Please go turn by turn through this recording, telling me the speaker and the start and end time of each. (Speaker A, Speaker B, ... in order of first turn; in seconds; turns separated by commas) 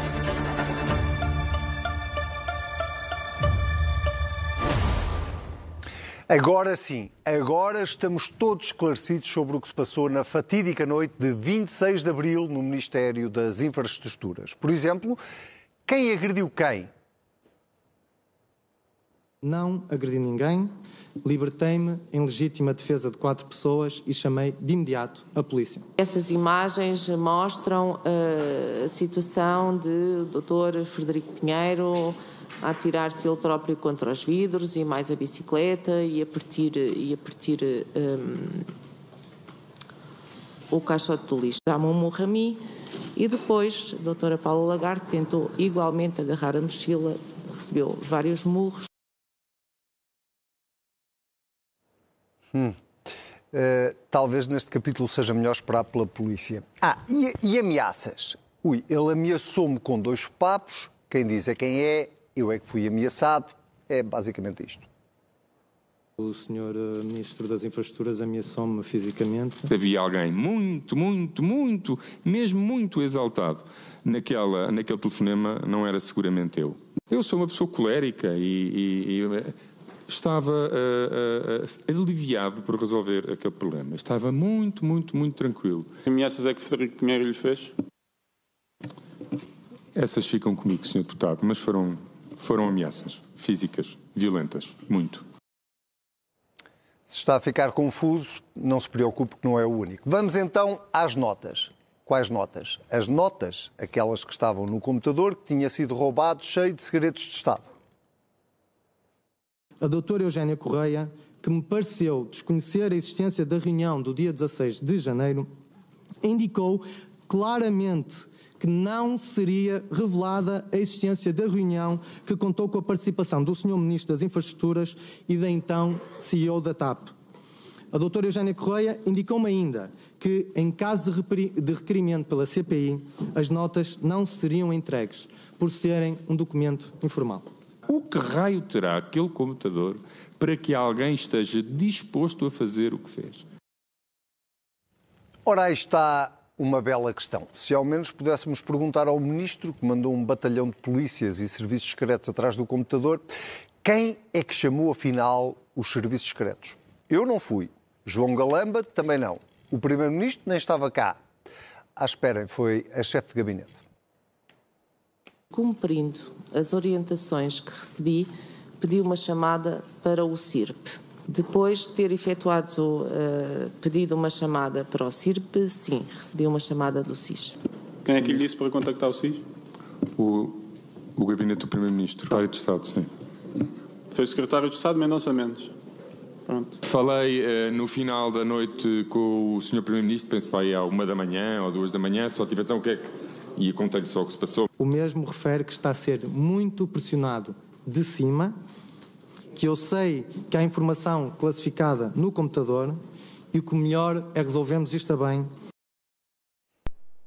Speaker A: 6.3-15.2, Speaker A: 15.8-16.9, Speaker B: 19.4-25.9, Speaker C: 26.0-38.7, Speaker C: 40.7-42.6, Speaker C: 43.1-48.9, Speaker A: 52.5-52.8, Speaker A: 53.5-64.9, Speaker B: 66.2-69.7, Speaker D: 69.7-85.9, Speaker E: 86.0-87.7, Speaker D: 89.9-95.2, Speaker A: 97.1-107.7, Speaker B: 109.8-115.5, Speaker B: 116.2-127.1, Speaker B: 127.9-137.5, Speaker D: 137.9-143.4, Speaker A: 145.4-153.3, Speaker A: 153.8-161.2, Speaker A: 161.9-163.8, Speaker C: 165.5-177.6, Speaker E: 178.0-179.5, Speaker D: 180.1-183.1, Speaker E: 184.1-185.7, Speaker E: 186.4-186.8, Speaker D: 186.8-194.7, Speaker B: 194.8-198.6, Speaker B: 199.5-203.0, Speaker B: 203.5-205.5